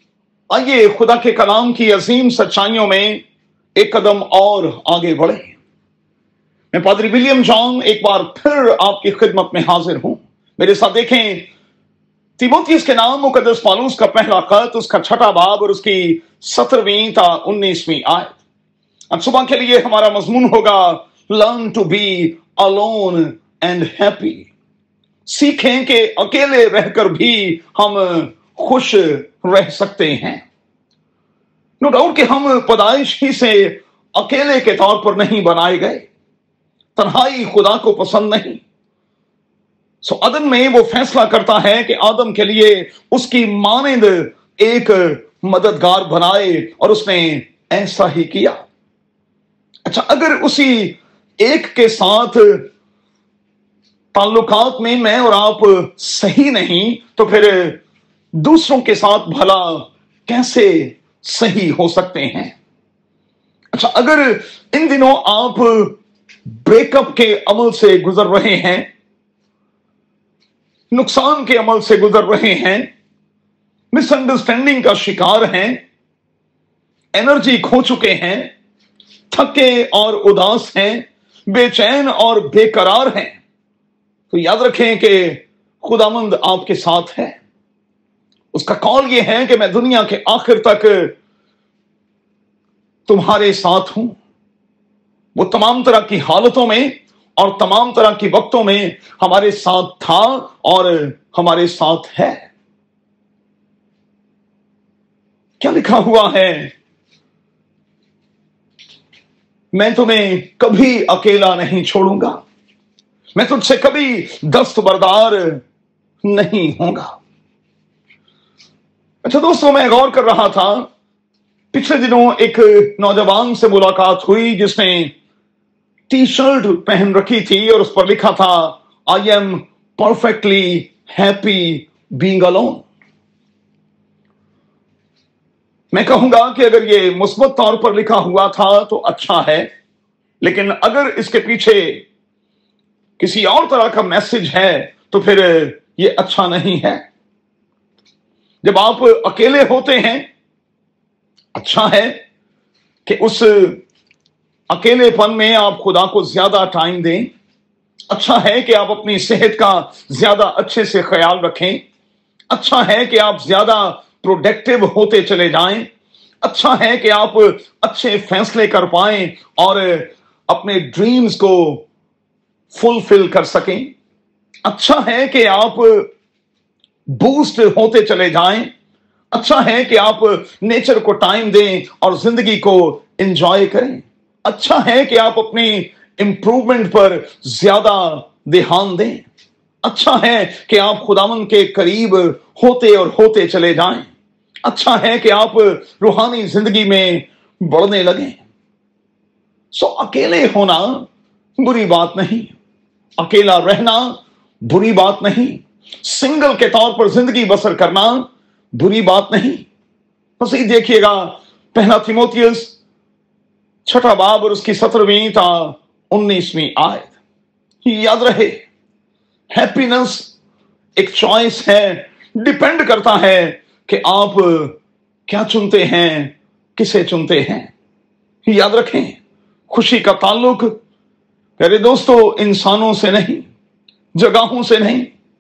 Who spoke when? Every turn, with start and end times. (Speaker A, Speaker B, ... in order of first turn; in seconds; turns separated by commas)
Speaker A: 0.5-3.2, Speaker A: 3.8-5.5, Speaker A: 6.7-11.5, Speaker A: 12.4-18.4, Speaker A: 19.1-24.5, Speaker A: 25.2-30.4, Speaker A: 31.8-36.1, Speaker A: 37.0-38.6, Speaker A: 40.0-48.6, Speaker A: 49.9-52.7, Speaker A: 54.1-57.8, Speaker A: 58.4-62.5, Speaker A: 63.7-66.0, Speaker A: 66.5-68.9, Speaker A: 70.9-72.9, Speaker A: 73.9-75.8, Speaker A: 77.1-78.5, Speaker A: 79.3-83.4, Speaker A: 84.3-87.4, Speaker A: 88.5-91.2, Speaker A: 93.0-94.2, Speaker A: 95.3-102.5, Speaker A: 105.6-106.7, Speaker A: 109.7-112.4, Speaker A: 113.3-115.6, Speaker A: 116.2-117.2, Speaker A: 119.2-120.9, Speaker A: 121.7-125.1, Speaker A: 126.1-132.9, Speaker A: 135.9-139.7, Speaker A: 140.4-142.0, Speaker A: 143.2-147.0, Speaker A: 148.6-150.3, Speaker A: 151.5-152.2, Speaker A: 153.1-153.8, Speaker A: 154.7-157.3, Speaker A: 158.1-161.8, Speaker A: 162.5-165.9, Speaker A: 166.4-171.8, Speaker A: 172.7-173.9, Speaker A: 174.6-176.1, Speaker A: 177.1-178.7, Speaker A: 179.3-189.3, Speaker A: 189.8-194.1, Speaker A: 194.6-198.4, Speaker A: 199.7-201.1, Speaker A: 201.6-202.6, Speaker A: 203.2-209.7, Speaker A: 210.4-212.8, Speaker A: 213.8-217.1, Speaker A: 217.8-218.6, Speaker A: 219.5-220.3, Speaker A: 221.0-227.7, Speaker A: 228.4-229.2, Speaker A: 229.7-230.8, Speaker A: 231.6-233.5, Speaker A: 234.2-235.1